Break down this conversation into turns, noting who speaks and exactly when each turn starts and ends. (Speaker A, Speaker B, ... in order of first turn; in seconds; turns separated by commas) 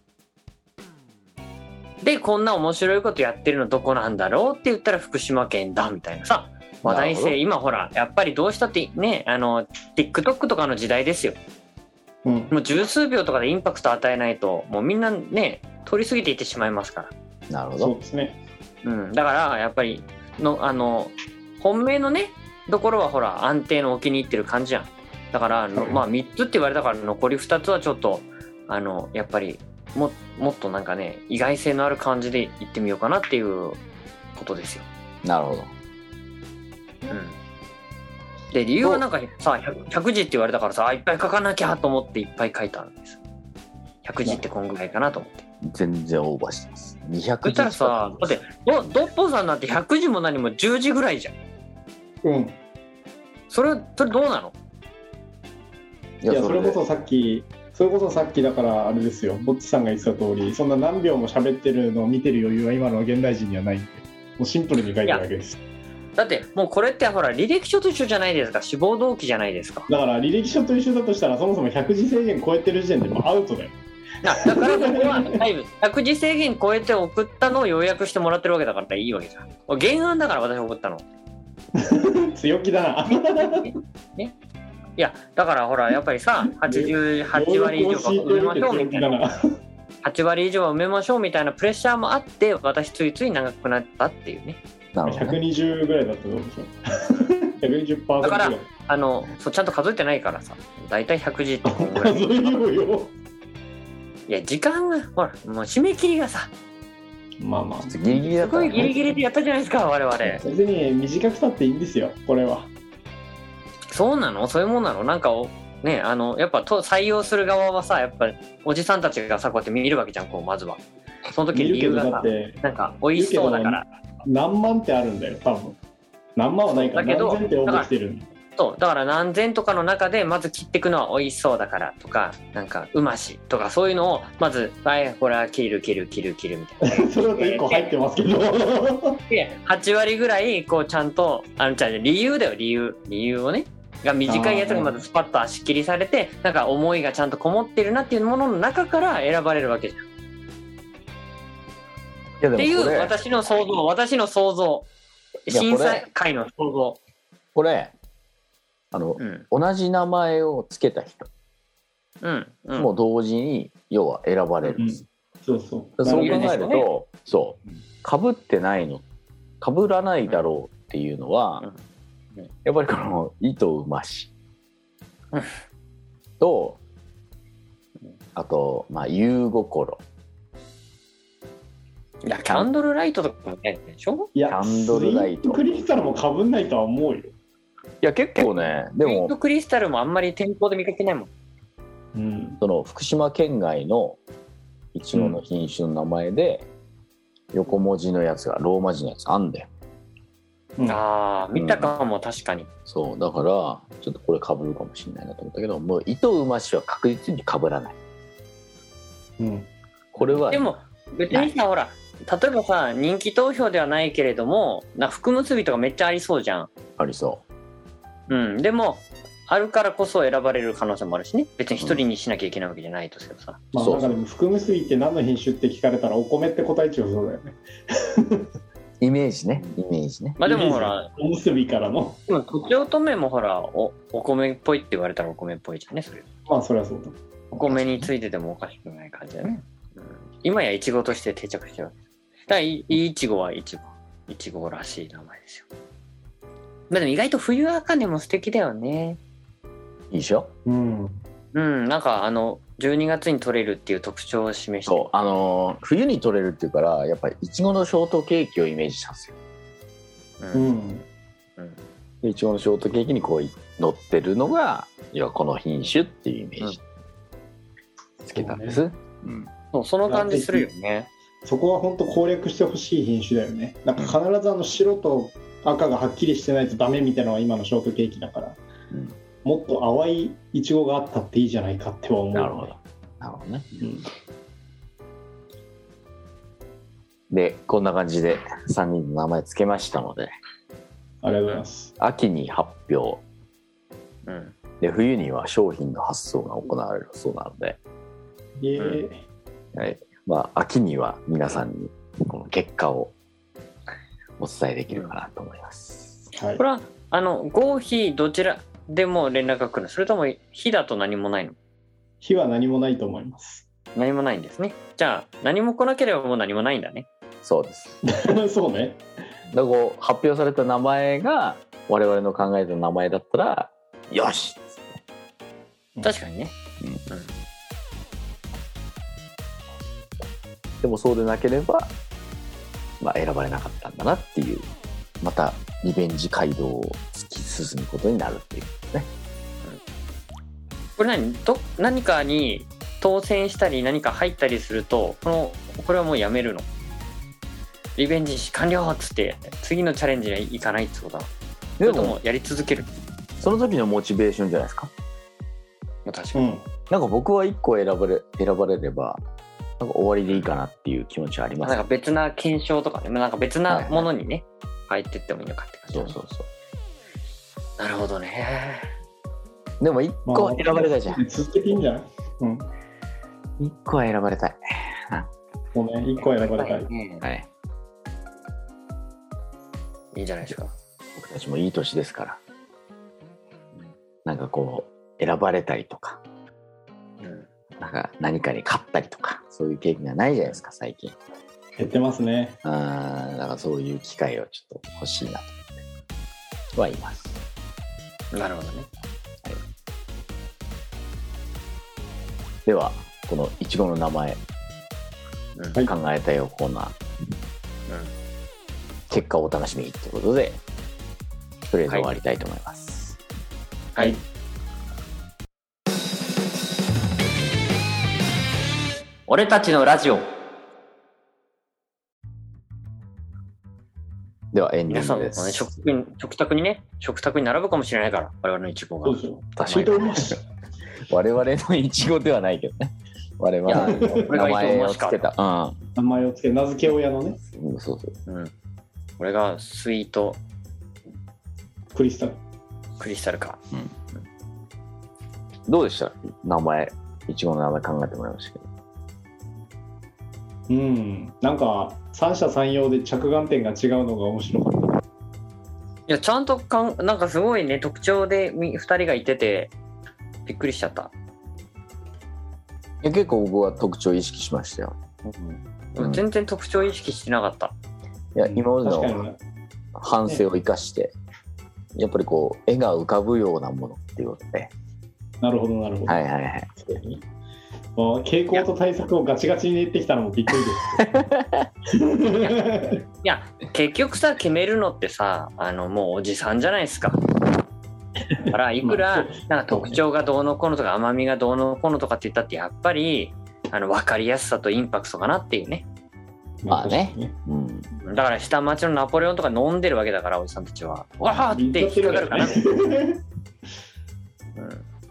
Speaker A: 2.0-11.4, Speaker B: 6.8-7.4, Speaker C: 12.2-12.5, Speaker A: 12.5-17.1, Speaker B: 17.5-17.9, Speaker C: 17.8-18.4, Speaker A: 18.8-33.8, Speaker A: 34.4-34.9, Speaker B: 35.2-35.7, Speaker A: 37.1-37.4, Speaker A: 38.5-43.2, Speaker A: 44.0-45.4, Speaker B: 45.6-48.4, Speaker A: 47.4-51.4, Speaker C: 52.2-52.6, Speaker A: 53.5-54.5, Speaker B: 56.2-56.8, Speaker C: 56.3-65.6, Speaker A: 66.2-69.9, Speaker C: 69.9-73.8, Speaker A: 74.2-81.0, Speaker C: 74.4-75.4, Speaker C: 81.8-83.7, Speaker A: 83.1-84.3, Speaker A: 85.0-89.5, Speaker C: 86.6-89.5, Speaker A: 90.0-94.6, Speaker B: 94.9-95.4, Speaker C: 95.1-98.7, Speaker A: 98.2-102.7, Speaker C: 101.7-103.1, Speaker A: 104.3-106.5, Speaker C: 107.4-108.9, Speaker B: 107.8-109.1, Speaker A: 108.4-110.4, Speaker C: 110.2-112.7, Speaker A: 113.9-123.9, Speaker C: 121.5-122.6, Speaker C: 123.1-125.8, Speaker C: 126.4-128.3, Speaker A: 126.7-127.9, Speaker A: 128.6-137.9, Speaker C: 136.8-139.2, Speaker A: 139.3-150.1, Speaker C: 144.3-145.0, Speaker B: 152.4-153.2, Speaker A: 152.6-154.9, Speaker A: 155.5-157.0, Speaker B: 155.5-156.1, Speaker B: 157.6-157.9, Speaker B: 158.9-161.3, Speaker A: 159.2-159.5, Speaker A: 162.2-162.9, Speaker B: 162.8-165.0, Speaker C: 164.8-166.7, Speaker B: 166.0-169.1, Speaker A: 166.1-166.9, Speaker B: 169.6-171.7, Speaker A: 170.3-170.5, Speaker B: 172.7-174.3, Speaker B: 176.4-176.8, Speaker B: 178.4-180.0, Speaker A: 182.2-184.3, Speaker B: 182.4-182.7, Speaker C: 184.3-187.3, Speaker B: 184.5-185.6, Speaker B: 188.0-189.3, Speaker A: 189.0-191.3, Speaker C: 192.1-192.6, Speaker B: 192.6-194.2, Speaker B: 194.9-196.7, Speaker C: 195.1-195.4, Speaker B: 197.5-199.7, Speaker A: 200.8-202.7, Speaker B: 201.6-202.0, Speaker B: 202.9-208.0, Speaker C: 209.4-210.4, Speaker B: 210.1-210.7, Speaker A: 210.5-216.7, Speaker B: 217.0-217.4, Speaker A: 218.3-223.6, Speaker B: 223.7-224.2, Speaker C: 223.7-228.4, Speaker B: 229.0-230.4, Speaker A: 230.4-231.1, Speaker C: 230.4-232.2, Speaker A: 232.3-236.2, Speaker C: 236.5-237.6, Speaker A: 237.6-241.9, Speaker B: 237.7-238.1, Speaker A: 242.5-245.7, Speaker A: 246.9-249.2, Speaker B: 250.1-250.5, Speaker C: 250.7-251.2, Speaker A: 251.5-255.1, Speaker B: 254.9-259.4, Speaker A: 260.4-260.8, Speaker C: 260.5-261.1, Speaker B: 262.2-266.8, Speaker B: 268.2-269.5, Speaker C: 268.4-268.8, Speaker A: 269.7-271.1, Speaker C: 270.1-270.7, Speaker C: 271.4-278.6, Speaker B: 278.9-279.2, Speaker C: 279.4-282.7, Speaker B: 282.3-283.6, Speaker C: 283.8-284.1, Speaker B: 287.3-290.3, Speaker C: 291.2-291.9, Speaker B: 292.0-293.2, Speaker A: 294.2-294.6, Speaker B: 294.8-297.8, Speaker C: 298.6-299.2, Speaker B: 299.8-303.1, Speaker B: 304.4-306.2, Speaker C: 306.4-306.6, Speaker A: 306.6-311.6, Speaker C: 312.2-313.6, Speaker A: 313.9-317.1, Speaker B: 317.4-318.0, Speaker C: 318.0-319.0, Speaker B: 319.5-324.8, Speaker A: 326.0-326.6, Speaker A: 327.1-327.3, Speaker B: 330.8-331.9, Speaker B: 333.0-334.7, Speaker B: 335.2-339.1, Speaker A: 341.0-346.7, Speaker A: 348.0-351.3, Speaker B: 351.8-352.2, Speaker A: 351.8-352.9, Speaker B: 353.4-354.9, Speaker A: 356.1-356.5, Speaker C: 356.4-356.7, Speaker B: 356.9-359.2, Speaker B: 359.8-361.8, Speaker A: 361.6-366.2, Speaker B: 363.7-364.1, Speaker B: 365.9-366.5, Speaker A: 367.8-368.9, Speaker B: 369.8-371.2, Speaker C: 370.3-372.7, Speaker B: 373.6-375.3, Speaker C: 375.7-376.9, Speaker A: 376.2-377.2, Speaker B: 377.2-377.5, Speaker A: 380.1-380.7, Speaker B: 381.2-382.4, Speaker B: 384.2-386.2, Speaker A: 387.2-387.5, Speaker B: 387.8-391.2, Speaker C: 391.8-392.6, Speaker B: 392.6-395.6, Speaker B: 396.8-397.4, Speaker A: 398.3-398.9, Speaker B: 402.7-404.4, Speaker A: 405.6-405.8, Speaker B: 405.8-407.0, Speaker B: 409.1-410.6, Speaker B: 411.7-413.2, Speaker A: 411.9-412.1, Speaker A: 419.3-420.3, Speaker B: 424.5-425.7, Speaker A: 424.9-430.1, Speaker C: 429.0-430.4, Speaker B: 429.6-430.3, Speaker B: 431.1-435.8, Speaker A: 433.7-435.3, Speaker C: 433.7-434.3, Speaker C: 436.0-437.4, Speaker B: 437.5-438.1, Speaker A: 438.3-438.5, Speaker A: 439.2-440.4, Speaker C: 441.9-442.4, Speaker A: 443.0-443.6, Speaker B: 445.7-448.7, Speaker C: 450.7-455.0, Speaker A: 456.1-459.7, Speaker A: 460.4-461.1, Speaker B: 463.0-465.0, Speaker A: 465.9-467.7, Speaker B: 466.0-466.2, Speaker B: 468.4-469.2, Speaker C: 468.4-469.4, Speaker B: 470.0-471.1, Speaker B: 472.0-474.7, Speaker C: 475.4-476.2, Speaker B: 476.1-476.7, Speaker C: 476.8-477.2, Speaker C: 478.0-481.0, Speaker B: 481.0-481.7, Speaker C: 481.9-483.0, Speaker A: 482.4-482.7, Speaker A: 483.2-487.2, Speaker A: 488.5-495.9, Speaker C: 488.8-490.0, Speaker C: 496.6-497.4, Speaker B: 496.7-497.9, Speaker A: 498.0-502.6, Speaker C: 501.4-503.2, Speaker A: 504.6-504.8